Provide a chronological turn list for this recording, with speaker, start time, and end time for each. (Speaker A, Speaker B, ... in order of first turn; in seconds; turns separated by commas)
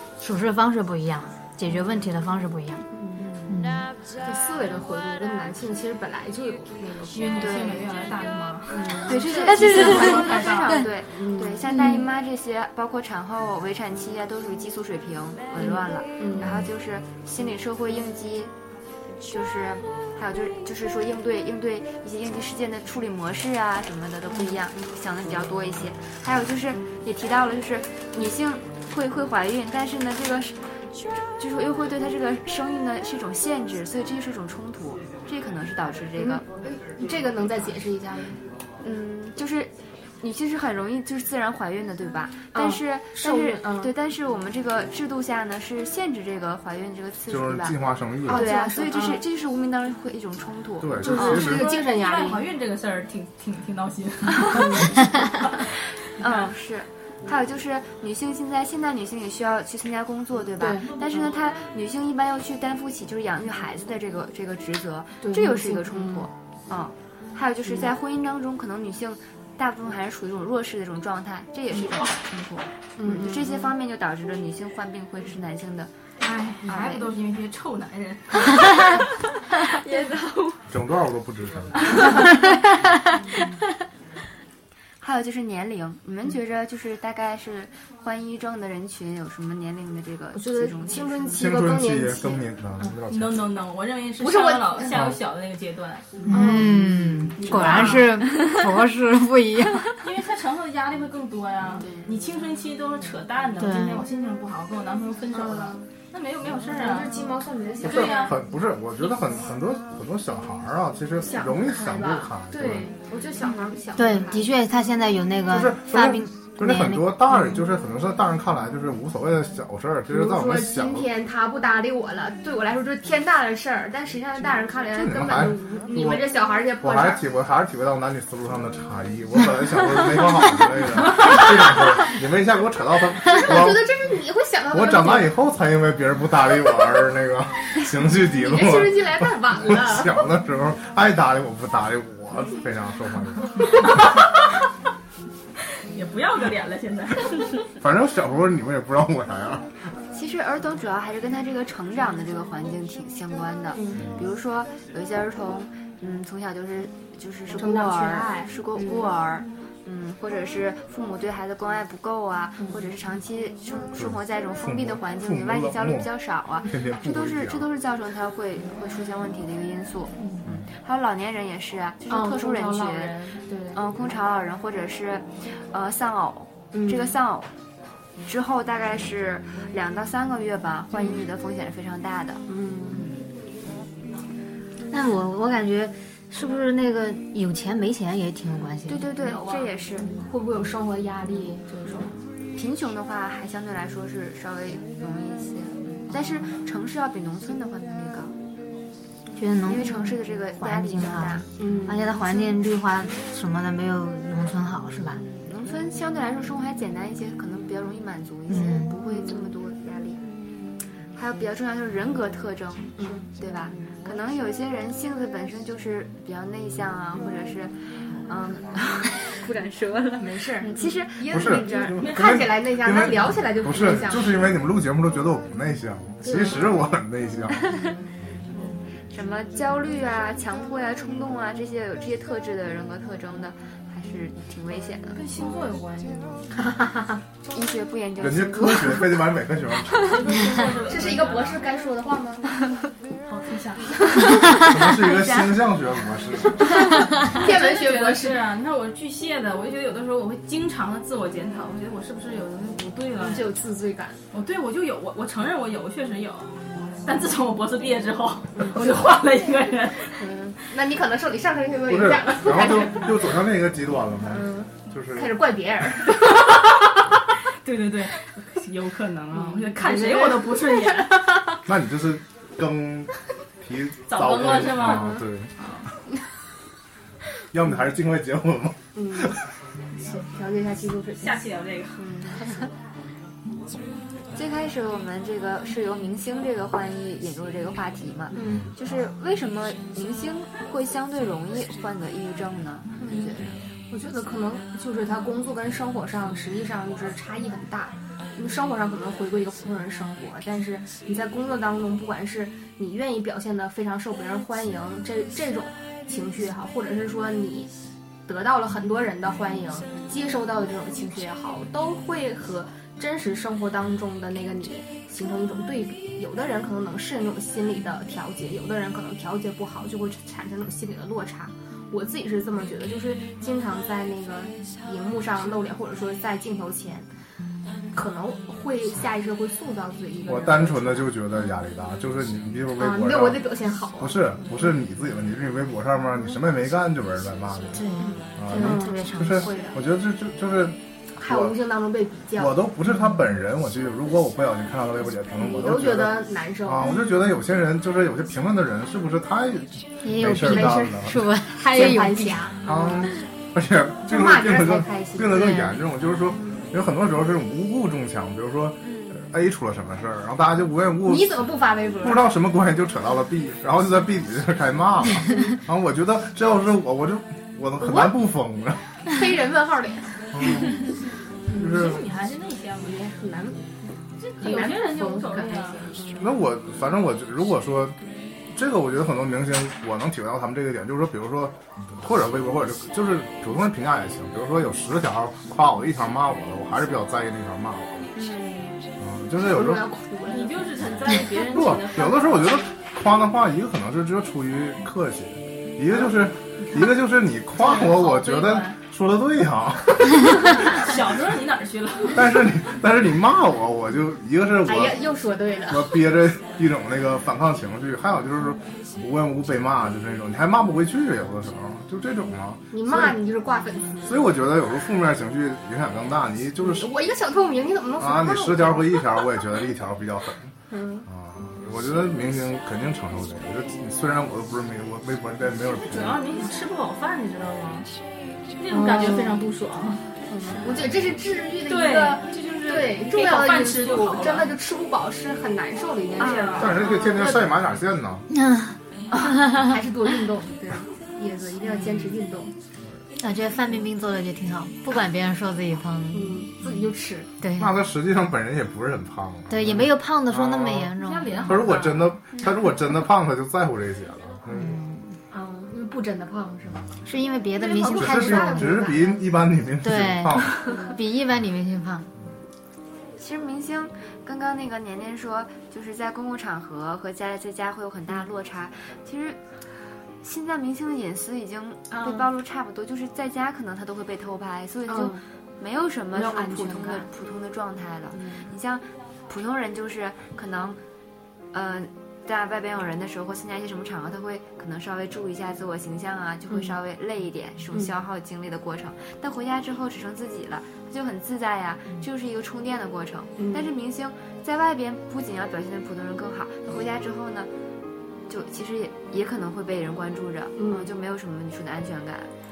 Speaker A: 0.2-2.8, Speaker B: 2.9-3.3, Speaker A: 3.5-3.9, Speaker B: 4.2-7.8, Speaker C: 7.1-10.8, Speaker D: 7.4-7.8, Speaker B: 8.7-11.8, Speaker D: 9.0-18.5, Speaker B: 15.6-16.7, Speaker D: 19.2-30.7, Speaker B: 24.3-24.6, Speaker D: 31.3-36.4, Speaker B: 36.2-38.4, Speaker D: 38.8-51.5, Speaker B: 42.5-43.9, Speaker E: 47.3-48.5, Speaker B: 48.2-49.2, Speaker E: 50.8-51.7, Speaker B: 51.0-52.4, Speaker C: 51.2-55.3, Speaker B: 54.4-55.0, Speaker D: 56.2-75.9, Speaker B: 60.6-61.1, Speaker B: 65.2-66.3, Speaker B: 73.0-73.7, Speaker C: 76.2-79.0, Speaker D: 76.6-77.1, Speaker C: 79.6-80.6, Speaker E: 80.7-82.0, Speaker D: 85.0-91.4, Speaker B: 90.3-92.9, Speaker E: 91.3-93.5, Speaker C: 93.1-96.1, Speaker B: 94.2-95.0, Speaker E: 94.9-95.2, Speaker A: 96.3-99.9, Speaker B: 96.3-98.1, Speaker C: 97.4-98.1, Speaker C: 100.0-107.3, Speaker A: 103.6-104.0, Speaker B: 105.3-105.8, Speaker B: 106.7-108.4, Speaker C: 107.8-108.4, Speaker E: 107.8-112.9, Speaker B: 111.2-114.5, Speaker A: 113.9-117.2, Speaker E: 115.5-121.1, Speaker B: 120.1-127.2, Speaker E: 124.9-133.9, Speaker B: 133.2-135.3, Speaker E: 134.7-143.6, Speaker B: 138.2-140.2, Speaker C: 145.9-147.7, Speaker E: 147.8-149.7, Speaker D: 150.1-173.2, Speaker B: 153.7-154.1, Speaker B: 157.5-159.1, Speaker B: 162.6-162.8, Speaker E: 163.9-166.1, Speaker E: 166.6-167.7, Speaker B: 172.1-173.8, Speaker D: 173.7-177.5, Speaker B: 176.7-177.2, Speaker D: 178.2-182.4, Speaker B: 180.9-181.2, Speaker B: 182.5-183.1, Speaker A: 184.9-189.0, Speaker D: 188.9-190.2, Speaker B: 189.2-192.1, Speaker D: 192.5-198.3, Speaker A: 199.4-199.9, Speaker D: 199.6-201.5, Speaker A: 200.6-205.2, Speaker B: 201.6-202.5, Speaker D: 205.2-210.2, Speaker A: 208.5-209.0, Speaker B: 209.1-209.3, Speaker D: 211.1-217.8, Speaker B: 213.0-213.3, Speaker D: 218.3-222.0, Speaker B: 220.2-224.4, Speaker E: 221.3-227.6, Speaker B: 226.2-226.7, Speaker D: 229.1-235.2, Speaker C: 235.1-236.4, Speaker B: 236.6-237.0, Speaker D: 237.5-239.0, Speaker E: 238.2-240.1, Speaker C: 240.0-241.7, Speaker B: 240.8-242.4, Speaker C: 243.2-244.1, Speaker E: 244.6-246.7, Speaker B: 247.2-248.4, Speaker C: 247.3-253.5, Speaker B: 253.2-254.2, Speaker C: 254.3-256.5, Speaker C: 257.0-260.2, Speaker B: 258.6-259.0, Speaker B: 260.1-263.3, Speaker E: 261.9-265.4, Speaker B: 264.3-266.4, Speaker C: 267.6-271.4, Speaker B: 269.3-271.0, Speaker E: 271.6-275.5, Speaker C: 274.1-275.9, Speaker B: 274.9-275.2, Speaker E: 277.5-279.4, Speaker B: 278.9-279.4, Speaker B: 280.1-281.4, Speaker C: 281.2-282.0, Speaker B: 282.0-282.6, Speaker D: 284.3-293.6, Speaker B: 288.3-288.7, Speaker B: 293.0-293.4, Speaker B: 293.9-307.7, Speaker B: 308.2-327.1, Speaker B: 327.9-331.1, Speaker E: 330.2-341.6, Speaker B: 332.8-334.7, Speaker A: 337.7-339.6, Speaker B: 338.0-339.8, Speaker B: 341.2-342.6, Speaker E: 342.4-351.2, Speaker B: 345.4-347.2, Speaker A: 350.0-352.5, Speaker B: 350.3-353.1, Speaker E: 352.6-361.5, Speaker B: 354.0-355.7, Speaker D: 358.8-359.2, Speaker B: 361.0-362.3, Speaker E: 362.0-368.8, Speaker B: 367.8-368.2, Speaker B: 369.1-370.7, Speaker E: 370.3-370.7, Speaker E: 371.5-372.0, Speaker C: 371.6-373.1, Speaker B: 372.8-373.6, Speaker C: 374.2-375.9, Speaker B: 374.4-376.3, Speaker E: 376.2-378.0, Speaker E: 378.5-388.1, Speaker D: 388.1-388.8, Speaker E: 389.0-389.9, Speaker B: 389.4-390.6, Speaker C: 390.3-392.7, Speaker E: 391.4-400.5, Speaker C: 397.6-398.8, Speaker C: 400.4-402.4, Speaker E: 402.1-405.1, Speaker B: 404.6-405.9, Speaker E: 405.7-413.2, Speaker B: 412.7-414.3, Speaker E: 414.0-416.9, Speaker B: 416.6-419.1, Speaker E: 418.0-420.5, Speaker B: 420.7-421.1, Speaker E: 421.1-426.2, Speaker C: 425.7-427.9, Speaker C: 428.6-430.1, Speaker B: 428.7-429.4, Speaker B: 430.3-437.5, Speaker C: 431.6-434.6, Speaker D: 436.2-436.7, Speaker C: 436.2-436.8, Speaker E: 436.6-438.3, Speaker A: 438.3-439.7, Speaker B: 439.4-442.5, Speaker A: 443.2-446.9, Speaker B: 446.1-447.3, Speaker A: 447.4-447.8, Speaker E: 447.6-454.8, Speaker A: 449.5-451.5, Speaker C: 451.0-452.1, Speaker A: 454.5-455.2, Speaker B: 455.3-457.0, Speaker A: 457.0-458.8, Speaker B: 457.5-459.2, Speaker E: 457.9-460.6, Speaker A: 459.8-462.1, Speaker B: 460.6-461.0, Speaker D: 463.2-469.4, Speaker D: 470.2-480.8, Speaker B: 474.9-475.2, Speaker B: 476.1-477.1, Speaker B: 478.1-478.5, Speaker D: 481.5-497.5, Speaker B: 486.5-486.7, Speaker B: 493.4-493.7, Speaker D: 498.3-502.3, Speaker B: 500.6-500.9